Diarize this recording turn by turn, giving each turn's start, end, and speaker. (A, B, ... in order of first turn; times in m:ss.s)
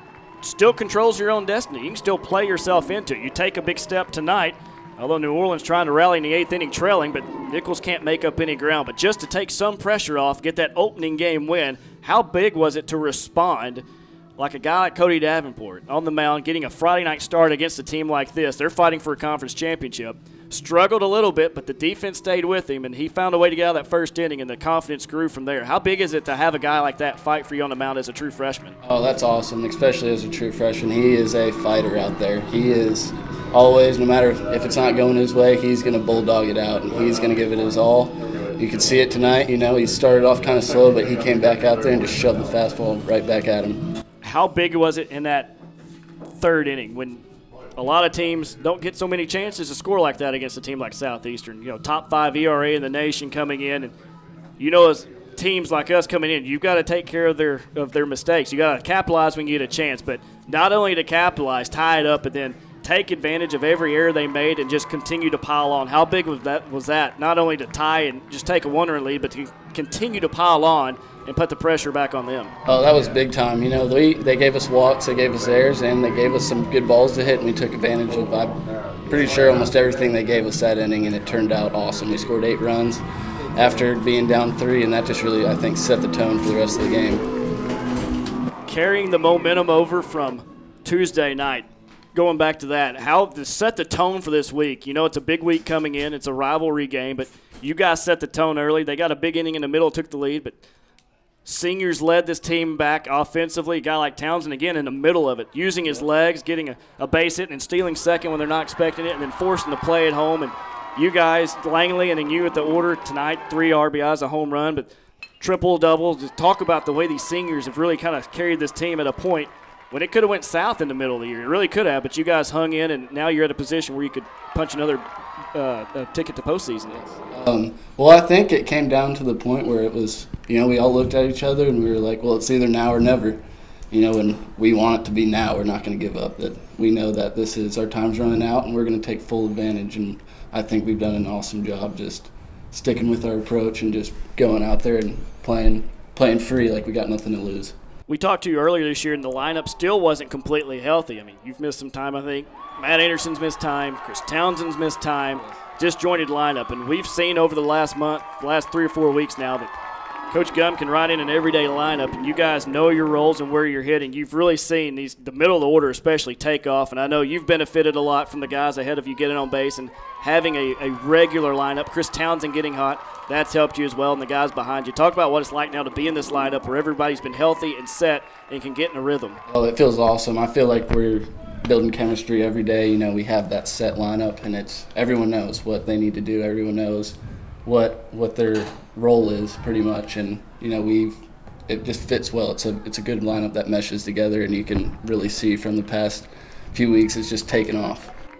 0:00.4-0:13.8 A
0:14.4-0:28.8 A
0:28.8-0:43.8 B
0:44.2-0:45.5 A
0:46.3-0:47.2 A
0:47.8-0:53.9 A
0:54.6-1:12.5 A
1:12.6-1:18.6 B
1:19.1-1:23.0 B
1:23.6-1:27.2 B
1:28.7-1:40.6 A
1:41.4-2:05.0 A
2:05.5-2:07.0 A
2:07.0-2:13.4 B
2:13.9-2:27.8 B
2:28.1-2:39.7 A
2:40.3-2:59.4 A
2:59.5-3:18.1 B